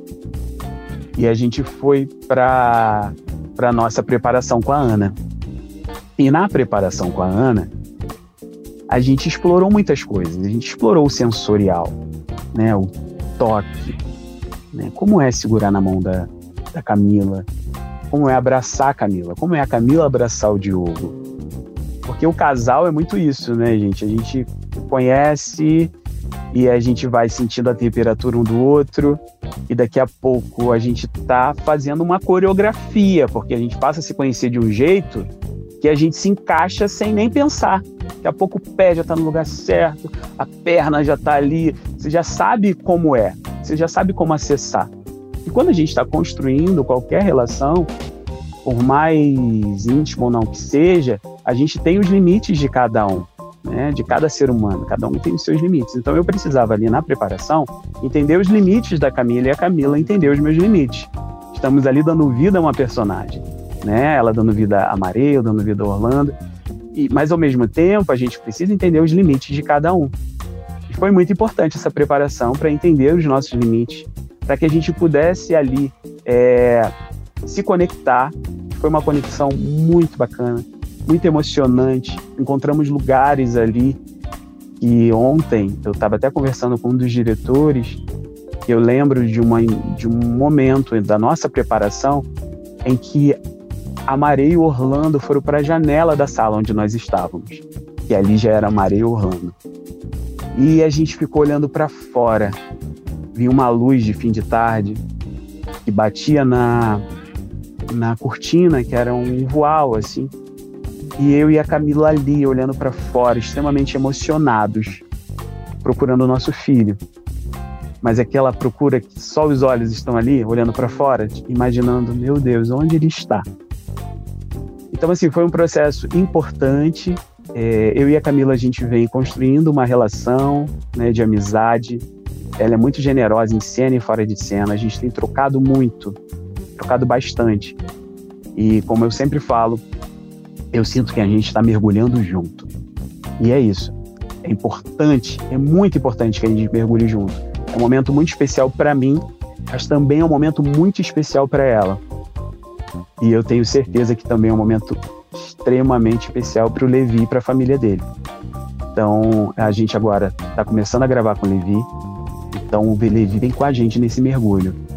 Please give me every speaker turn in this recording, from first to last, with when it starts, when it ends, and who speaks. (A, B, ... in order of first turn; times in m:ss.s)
0:01.2-0:05.2 A
0:06.2-0:07.7 A
0:08.9-0:12.0 A
0:12.5-0:14.0 A
0:14.7-0:17.5 A
0:18.1-0:21.2 A
0:22.1-0:25.9 A
0:26.5-0:35.3 A
0:35.8-0:44.9 A
0:45.4-0:47.9 A
0:48.6-1:06.4 A
1:06.9-1:10.1 A
1:10.9-1:16.9 A
1:17.4-1:24.0 A
1:24.8-1:28.0 A
1:28.7-1:32.3 A
1:32.8-1:33.4 A
1:34.1-1:39.6 A
1:40.5-1:42.6 A
1:43.3-1:45.0 A
1:45.8-1:47.0 A
1:47.9-1:50.3 A
1:51.2-1:55.0 A
1:55.8-1:57.0 A
1:58.0-2:03.5 A
2:04.9-2:12.1 A
2:12.6-2:16.2 A
2:16.8-2:17.8 A
2:18.6-2:19.8 A
2:20.7-2:22.7 A
2:23.4-2:32.0 A
2:33.2-2:38.1 A
2:38.9-2:41.9 A
2:42.5-2:44.8 A